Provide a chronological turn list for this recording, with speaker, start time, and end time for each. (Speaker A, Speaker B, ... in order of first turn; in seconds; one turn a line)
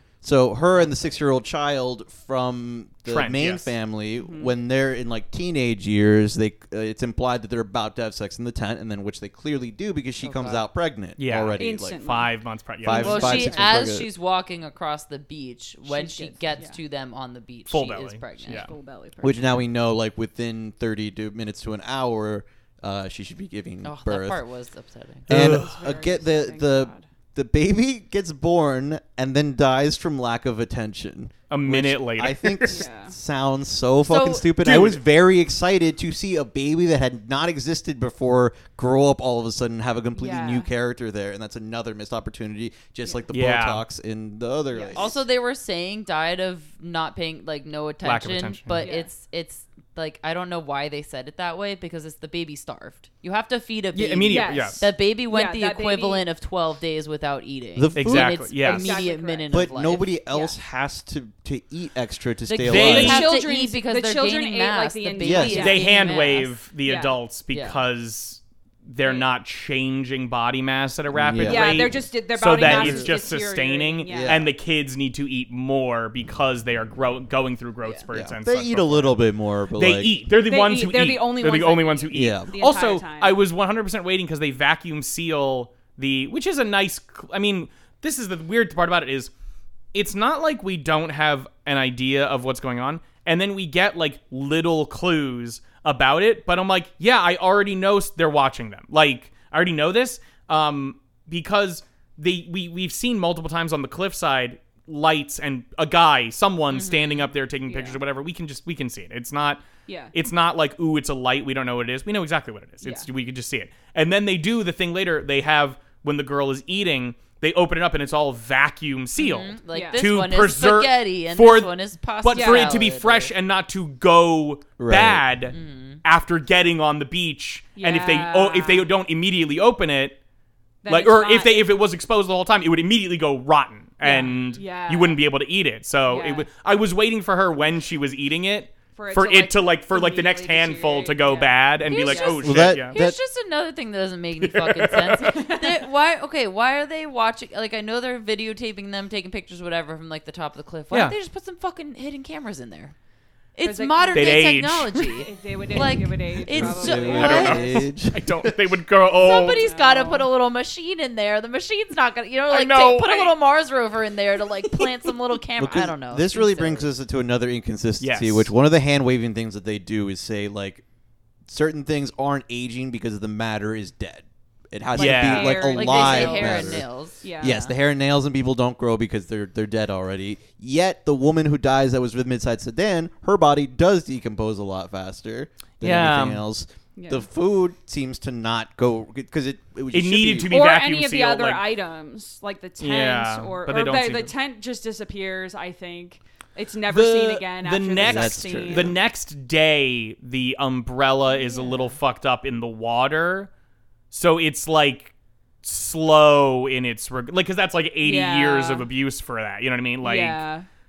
Speaker A: 0.2-12.0
Speaker B: 3.1-3.7
Speaker C: 4.2-4.5
Speaker D: 10.2-10.6
Speaker B: 11.2-13.4
Speaker C: 11.6-12.3
Speaker A: 12.8-14.1
Speaker D: 12.9-18.7
Speaker C: 12.9-13.8
Speaker C: 15.9-16.8
Speaker B: 17.7-18.7
Speaker C: 18.5-19.6
Speaker A: 19.2-24.4
Speaker D: 23.8-25.3
Speaker B: 25.3-25.8
Speaker A: 25.3-45.2
Speaker C: 25.4-27.0
Speaker B: 31.5-32.9
Speaker C: 32.7-33.1
Speaker D: 34.1-34.5
Speaker B: 34.6-35.0
Speaker C: 40.2-40.7
Speaker B: 43.3-43.8
Speaker C: 44.7-45.1
Speaker D: 45.0-60.6
Speaker B: 48.0-48.9
Speaker C: 48.8-49.1
Speaker B: 53.9-54.8
Speaker C: 54.3-56.2
Speaker A: 57.8-58.5
Speaker B: 58.0-59.0
Speaker C: 58.6-59.5
Speaker A: 59.5-63.3
Speaker D: 62.5-66.5
Speaker B: 62.6-63.3
Speaker C: 62.9-65.9
Speaker A: 65.2-65.8
Speaker B: 65.5-79.2
Speaker C: 66.8-67.2
Speaker D: 67.5-67.8
Speaker A: 71.1-72.0
Speaker C: 71.4-74.4
Speaker A: 72.5-73.2
Speaker A: 74.1-74.5
Speaker A: 78.1-80.2
Speaker B: 79.7-89.3
Speaker C: 80.4-83.4
Speaker A: 82.1-82.5
Speaker B: 89.9-130.2
Speaker D: 106.7-107.3
Speaker C: 107.7-108.0
Speaker C: 109.9-110.1
Speaker C: 112.8-113.1
Speaker D: 119.2-123.3
Speaker C: 119.7-120.0
Speaker C: 122.3-122.8
Speaker A: 124.8-125.3
Speaker D: 125.5-126.0
Speaker C: 127.8-128.9
Speaker C: 130.8-131.7
Speaker B: 130.9-143.0
Speaker C: 134.0-135.2
Speaker C: 136.1-136.5
Speaker C: 138.9-142.6
Speaker D: 141.8-152.9
Speaker A: 142.4-143.2
Speaker B: 144.4-145.3
Speaker C: 145.3-145.8
Speaker D: 153.6-157.7
Speaker C: 153.6-154.6
Speaker B: 154.1-155.1
Speaker C: 155.1-157.8
Speaker A: 156.5-158.6
Speaker B: 156.9-159.6
Speaker D: 159.2-166.9
Speaker C: 159.3-160.3
Speaker B: 162.5-163.3
Speaker B: 164.7-165.1
Speaker A: 165.6-170.8
Speaker B: 168.0-168.5
Speaker A: 171.5-190.5
Speaker B: 174.9-175.7
Speaker C: 174.9-177.6
Speaker D: 175.6-177.7
Speaker B: 185.8-186.4
Speaker C: 187.0-187.2
Speaker B: 189.9-191.6
Speaker C: 190.5-199.0
Speaker B: 192.8-194.3
Speaker B: 196.9-203.5
Speaker A: 198.0-198.9
Speaker C: 201.3-202.0
Speaker B: 204.1-210.4
Speaker C: 208.0-208.9
Speaker C: 210.0-210.7